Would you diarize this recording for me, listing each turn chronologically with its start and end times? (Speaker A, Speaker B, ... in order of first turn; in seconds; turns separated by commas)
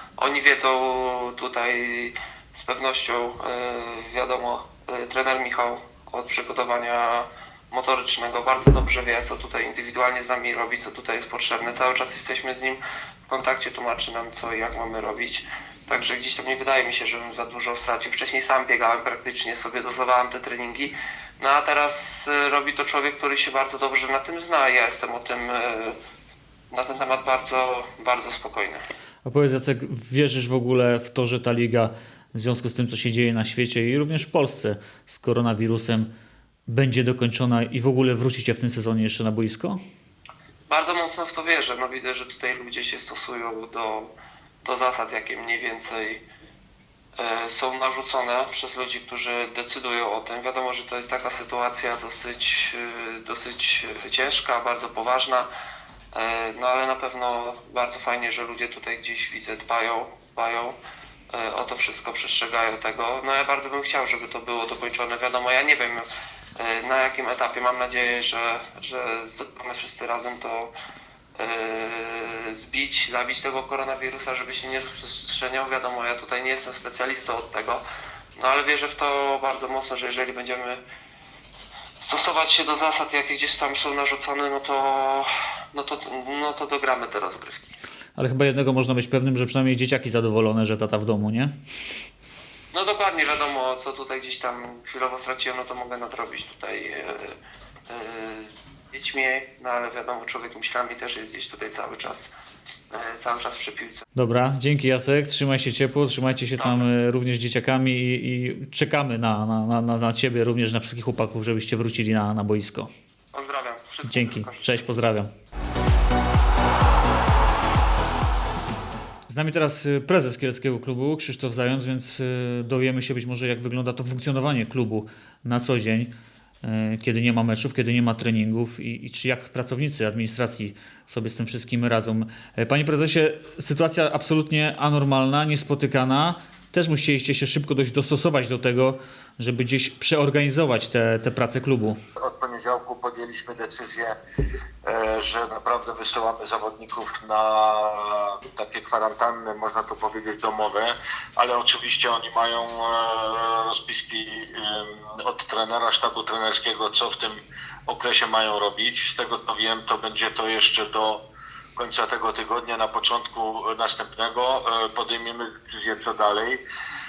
Speaker A: 0.2-26.0, Speaker A: 26.7-28.8, Speaker B: 29.2-36.1, Speaker B: 36.7-39.8, Speaker A: 40.7-44.1, Speaker A: 44.6-46.2, Speaker A: 47.2-55.5, Speaker A: 56.1-60.8, Speaker A: 61.3-70.7, Speaker A: 71.4-77.8, Speaker A: 78.4-80.8, Speaker A: 82.0-87.8, Speaker B: 88.2-91.5, Speaker A: 92.7-97.4, Speaker A: 97.9-102.3, Speaker A: 102.9-104.1, Speaker B: 104.2-112.9, Speaker A: 106.6-106.9, Speaker A: 113.3-114.9, Speaker B: 114.0-115.3, Speaker B: 119.3-126.1, Speaker B: 126.6-142.0, Speaker C: 142.2-144.2, Speaker C: 144.8-161.2, Speaker C: 161.8-166.6